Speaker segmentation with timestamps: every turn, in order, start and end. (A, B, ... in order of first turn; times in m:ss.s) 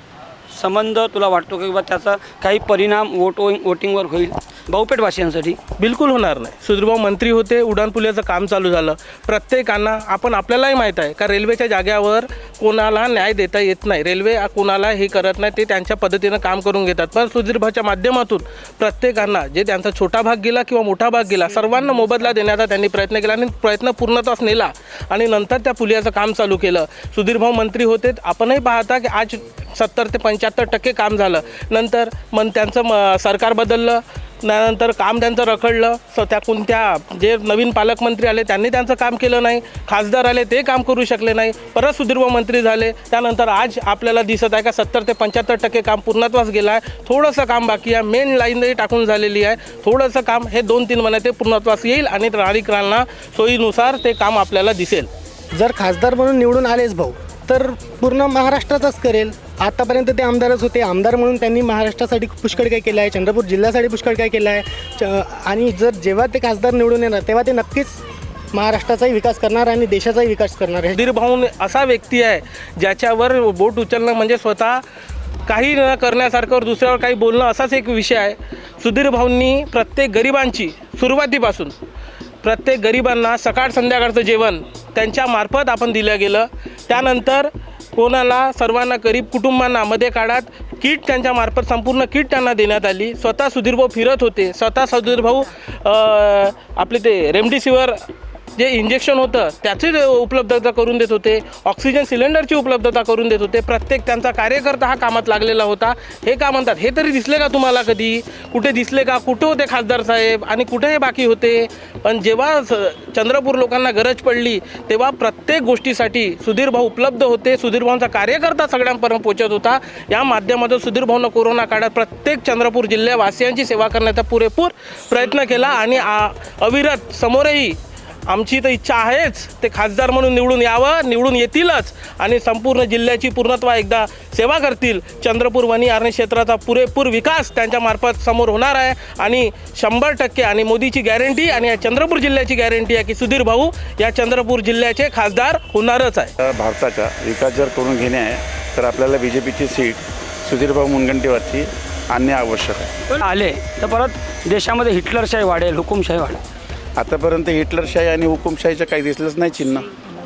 0:00.5-0:05.6 A
0:05.8-0:55.1 B
0:55.5-1:08.0 C
1:08.5-1:11.0 C
1:11.0-1:14.8 B
1:15.5-1:21.7 B
1:22.4-1:38.0 B
1:38.6-2:26.3 B
2:26.4-2:32.9 D
2:33.1-2:36.4 A
2:37.0-2:39.9 D